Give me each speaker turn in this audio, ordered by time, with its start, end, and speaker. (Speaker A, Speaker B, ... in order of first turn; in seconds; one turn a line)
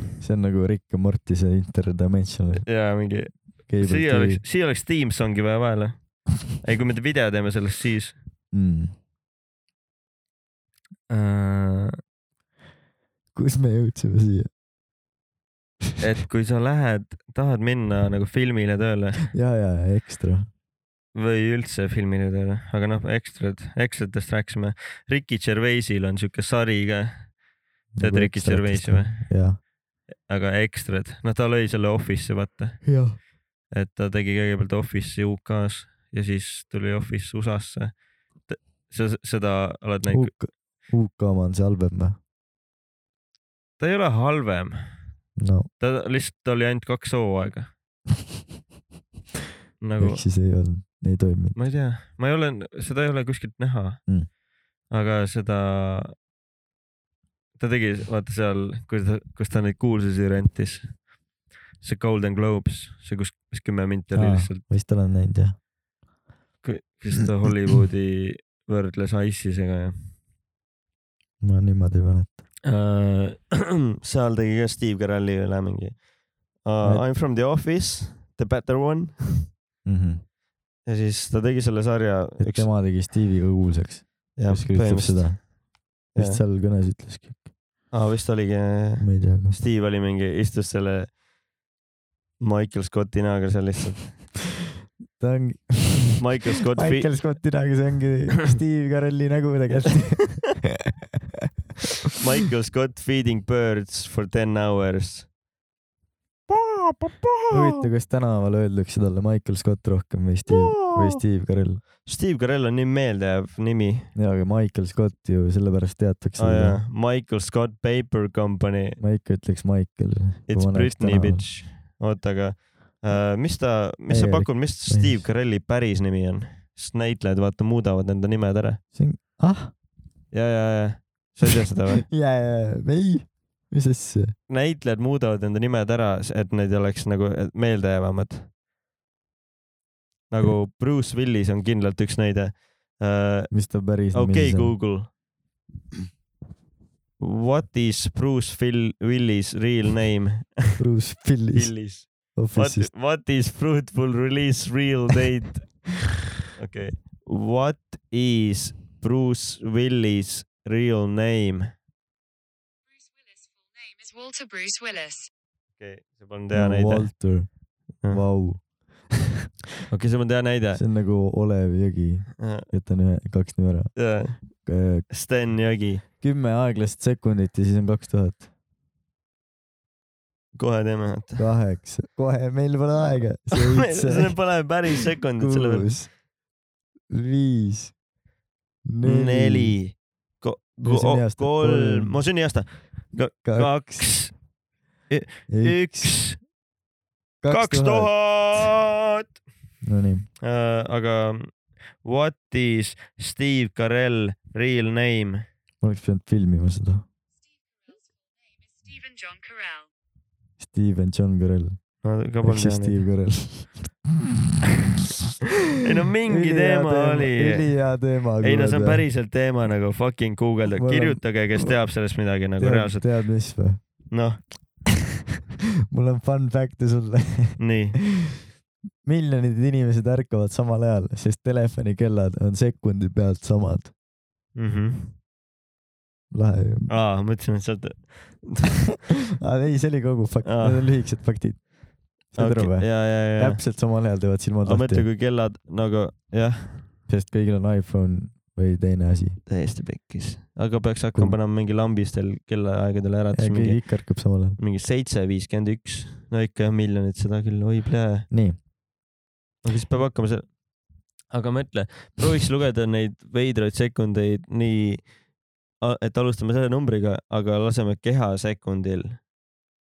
Speaker A: 0.2-2.7
Speaker B: 2.7-8.2
Speaker A: 3.7-4.4
Speaker A: 8.5-8.9
Speaker B: 11.1-12.0
Speaker A: 13.3-14.5
Speaker B: 16.0-19.3
Speaker A: 19.3-20.5
Speaker B: 21.1-27.4
Speaker A: 27.9-29.6
Speaker B: 28.0-29.3
Speaker B: 30.3-32.9
Speaker A: 32.8-33.2
Speaker B: 33.7-37.9
Speaker B: 38.5-40.3
Speaker A: 40.1-42.2
Speaker B: 43.8-44.9
Speaker A: 45.4-45.7
Speaker B: 45.8-47.7
Speaker B: 49.8-50.2
Speaker A: 50.0-51.6
Speaker B: 51.5-54.0
Speaker B: 54.9-56.1
Speaker B: 57.6-61.0
Speaker B: 61.8-64.6
Speaker A: 64.1-65.6
Speaker B: 66.6-70.1
Speaker A: 71.4-72.4
Speaker B: 72.7-76.0
Speaker B: 76.6-79.5
Speaker A: 79.8-80.2
Speaker B: 80.9-82.7
Speaker A: 82.4-85.5
Speaker B: 84.4-85.5
Speaker A: 86.1-87.5
Speaker B: 86.2-86.4
Speaker B: 87.9-91.2
Speaker A: 89.0-89.6
Speaker B: 92.4-94.3
Speaker A: 95.2-100.9
Speaker B: 96.2-97.1
Speaker B: 102.2-105.3
Speaker B: 106.5-107.7
Speaker A: 107.5-111.8
Speaker B: 110.5-111.2
Speaker B: 112.0-114.1
Speaker A: 114.2-116.8
Speaker B: 116.4-119.0
Speaker A: 119.0-121.5
Speaker B: 120.5-128.8
Speaker A: 124.1-125.2
Speaker A: 128.9-129.7
Speaker B: 130.3-132.1
Speaker A: 132.0-134.3
Speaker B: 134.5-138.5
Speaker B: 140.3-143.5
Speaker A: 143.5-144.8
Speaker B: 144.1-145.1
Speaker B: 147.2-150.8
Speaker A: 150.8-152.9
Speaker B: 151.5-155.9
Speaker B: 156.5-161.7
Speaker C: 162.9-165.3
Speaker B: 165.8-167.1
Speaker A: 166.5-167.5
Speaker A: 168.1-168.6
Speaker B: 169.9-170.8
Speaker A: 170.8-173.9
Speaker B: 172.4-172.7
Speaker B: 174.0-174.4
Speaker A: 174.6-175.1
Speaker B: 175.1-176.0
Speaker A: 176.2-178.5
Speaker B: 180.6-181.4
Speaker A: 181.4-184.5
Speaker B: 183.5-185.9
Speaker A: 185.4-186.1
Speaker A: 187.1-187.9
Speaker A: 188.9-189.8
Speaker B: 189.0-194.3
Speaker A: 190.8-192.2
Speaker A: 193.4-194.2
Speaker B: 195.1-196.4
Speaker A: 195.5-196.2
Speaker A: 197.4-198.1
Speaker B: 197.5-199.2
Speaker A: 199.8-200.3
Speaker B: 200.4-205.4
Speaker A: 205.8-207.1
Speaker C: 207.5-209.9
Speaker A: 210.6-211.8
Speaker B: 212.0-213.0
Speaker A: 212.4-213.9
Speaker B: 215.8-217.7
Speaker A: 216.2-219.1
Speaker B: 218.4-223.1
Speaker A: 220.8-221.7
Speaker A: 222.6-223.8
Speaker B: 224.1-224.4
Speaker A: 225.9-227.6
Speaker B: 227.6-228.0
Speaker A: 229.0-233.9
Speaker B: 234.6-235.1
Speaker A: 236.3-236.9
Speaker B: 236.9-238.8
Speaker A: 239.4-241.7
Speaker B: 240.4-240.9
Speaker A: 242.3-245.1
Speaker B: 242.4-243.6
Speaker B: 244.6-246.9
Speaker A: 247.1-249.4
Speaker B: 249.5-258.3
Speaker A: 253.3-254.6
Speaker A: 258.3-258.6
Speaker B: 259.6-260.5
Speaker B: 261.3-265.1
Speaker B: 265.8-269.2